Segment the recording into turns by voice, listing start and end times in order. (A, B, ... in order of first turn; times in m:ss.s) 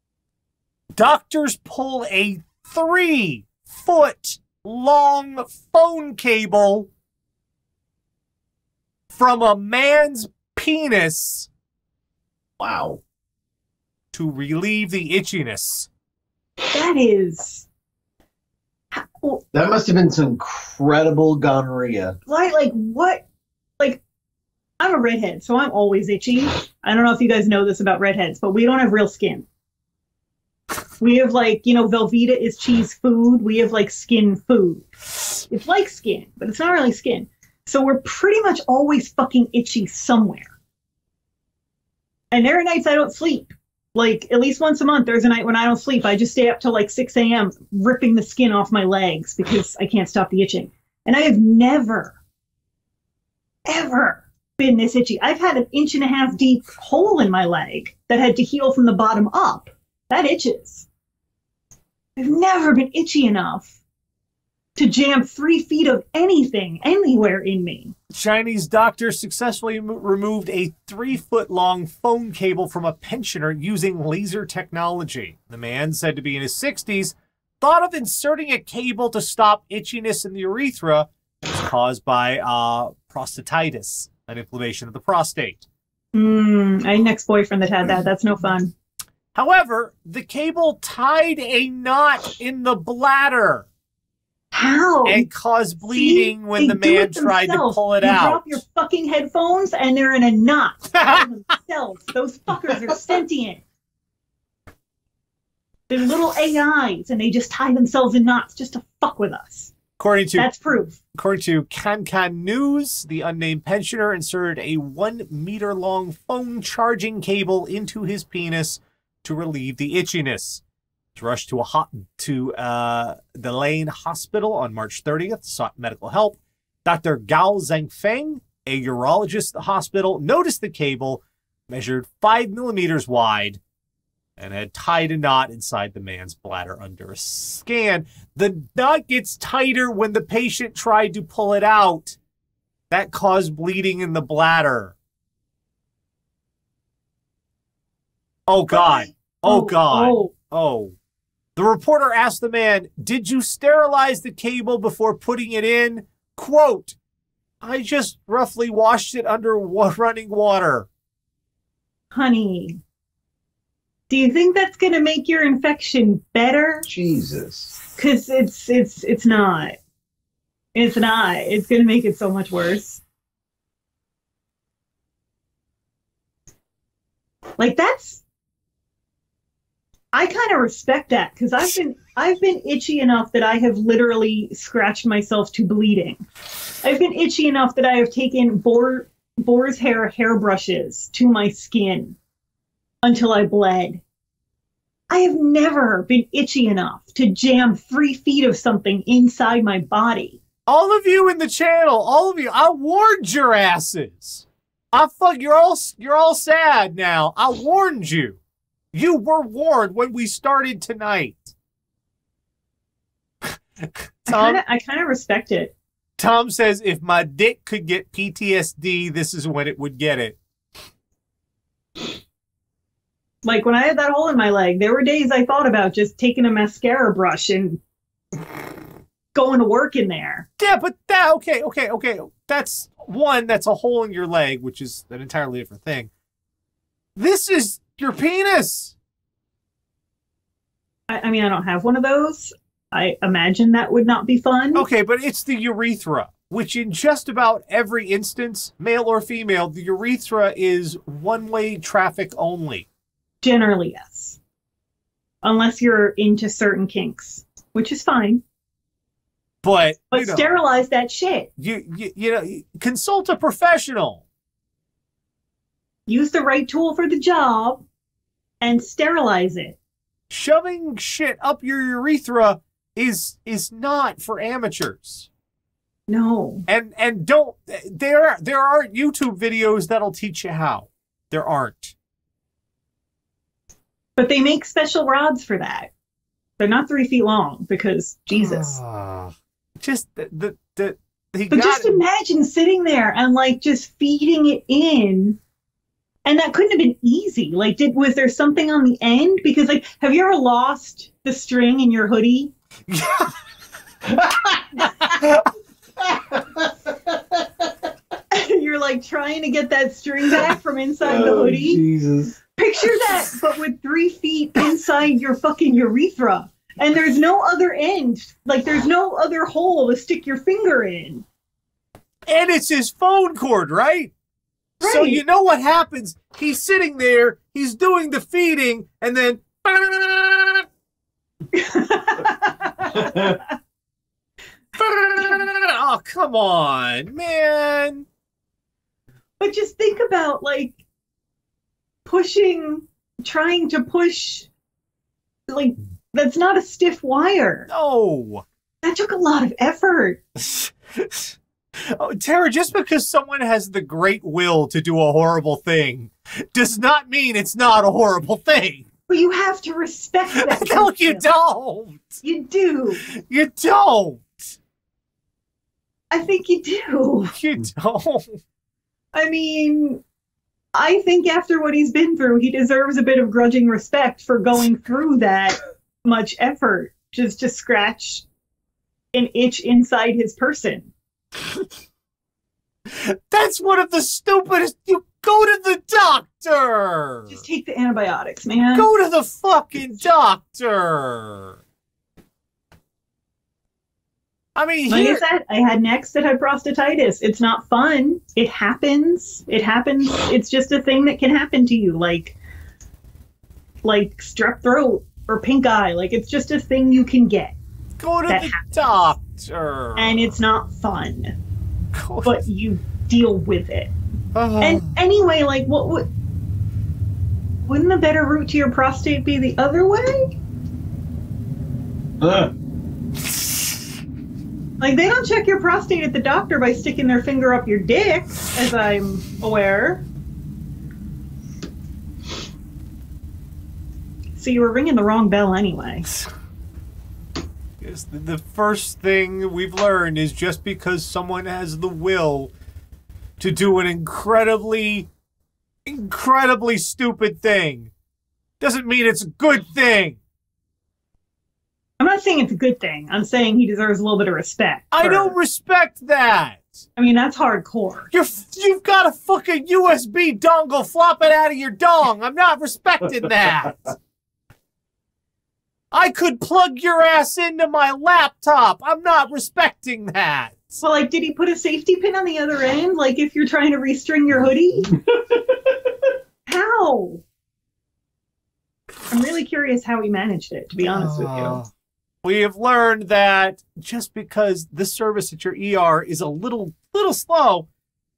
0:00.9-0:06.9 A
0:09.1-0:11.5 A
0:12.6-0:13.0 B
0:14.1-0:15.9 A
0:16.7-0:17.6 C
0:18.9-0:19.4 C
0:19.5-0:22.2 B
0:22.3-0:23.2 C
0:24.8-0:29.5 C
0:31.0-0:34.9 C
0:35.5-0:40.5 C
0:42.3-0:52.2 C
0:53.6-1:00.9 C
1:02.2-1:03.7 C
1:04.8-1:07.9 C
1:08.1-1:25.6 A
1:26.1-1:28.7 C
1:29.3-1:33.7 A
1:34.5-1:35.3 C
1:35.0-1:38.6 A
1:35.8-1:43.6 C
1:45.9-1:49.7 C
1:50.0-1:50.5 A
1:50.4-1:51.0 C
1:51.1-2:00.6 A
2:01.2-2:13.6 A
2:14.4-2:22.2 A
2:22.9-2:24.9 A
2:28.5-2:30.9 A
2:28.7-2:30.3 C
2:31.6-2:37.0 A
2:37.6-2:40.9 A
2:42.1-2:42.8 C
2:44.1-2:46.8 C
2:46.8-2:47.7 B
2:48.0-2:49.8 C
2:50.7-2:53.0 C
2:57.6-2:58.2 C
3:00.1-3:06.2 C
3:06.8-3:12.2 C
3:13.0-3:14.0 C
3:15.1-3:20.4 C
3:20.7-3:28.4 A
3:28.9-3:31.5 A
3:33.4-3:34.6 A
3:34.3-3:35.7 C
3:36.2-3:40.4 A
3:43.4-3:47.8 C
3:49.3-3:50.5 C
3:50.6-3:56.1 A
3:57.2-3:59.0 A
4:01.1-4:04.8 C
4:04.7-4:12.9 A
4:13.4-4:14.4 C
4:15.4-4:18.4 C
4:19.6-4:20.5 A
4:20.1-4:21.5 C
4:21.6-4:24.2 A
4:26.1-4:27.8 C
4:28.6-4:29.8 C
4:30.3-4:35.3 A
4:36.1-4:36.6 C
4:36.7-4:41.9 A
4:44.2-4:45.9 C
4:46.6-4:48.8 C
4:48.3-4:52.0 A
4:51.5-4:55.4 C
4:56.2-5:02.5 C
5:02.9-5:03.4 A
5:04.2-5:04.6 B
5:04.8-5:05.4 A
5:08.3-5:11.8 C
5:11.0-5:12.4 B
5:12.6-5:21.2 C
5:22.3-5:24.1 A
5:24.8-5:25.2 C
5:24.8-5:30.6 A
5:31.5-5:33.4 C
5:34.7-5:38.1 A
5:39.4-5:40.8 C
5:42.0-5:44.5 C
5:45.5-5:47.7 C
5:47.7-5:48.4 A
5:48.8-5:50.2 C
5:50.4-5:58.9 A
5:59.1-6:01.2 C
6:00.3-6:02.2 A
6:02.2-6:03.0 C
6:03.0-6:04.6 A
6:06.1-6:07.4 C
6:07.3-6:08.4 A
6:09.1-6:10.0 C
6:10.7-6:18.2 C
6:19.1-6:20.9 C
6:22.9-6:27.4 A
6:27.3-6:28.9 C
6:28.7-6:31.6 A
6:34.5-6:35.2 A
6:34.9-6:42.4 C
6:43.8-6:47.6 C
6:48.0-6:50.4 A
6:48.3-6:49.0 C
6:50.0-6:51.3 C
6:51.9-6:52.4 A
6:52.2-6:53.9 C
6:54.3-6:55.0 A
6:54.6-6:56.1 C
6:57.6-7:00.3 C
7:02.2-7:02.5 B
7:04.8-7:10.0 C
7:14.4-7:16.1 C
7:17.8-7:22.5 A
7:23.4-7:25.1 A
7:25.8-7:27.9 A
7:28.6-7:30.2 A
7:32.0-7:35.3 C
7:34.9-7:36.8 A
7:37.0-7:38.1 C
7:38.1-7:43.9 A
7:45.9-7:50.8 A
7:50.8-7:54.9 C
7:56.5-7:57.2 C
7:59.1-8:01.6 C
8:00.9-8:01.7 A
8:02.2-8:07.7 A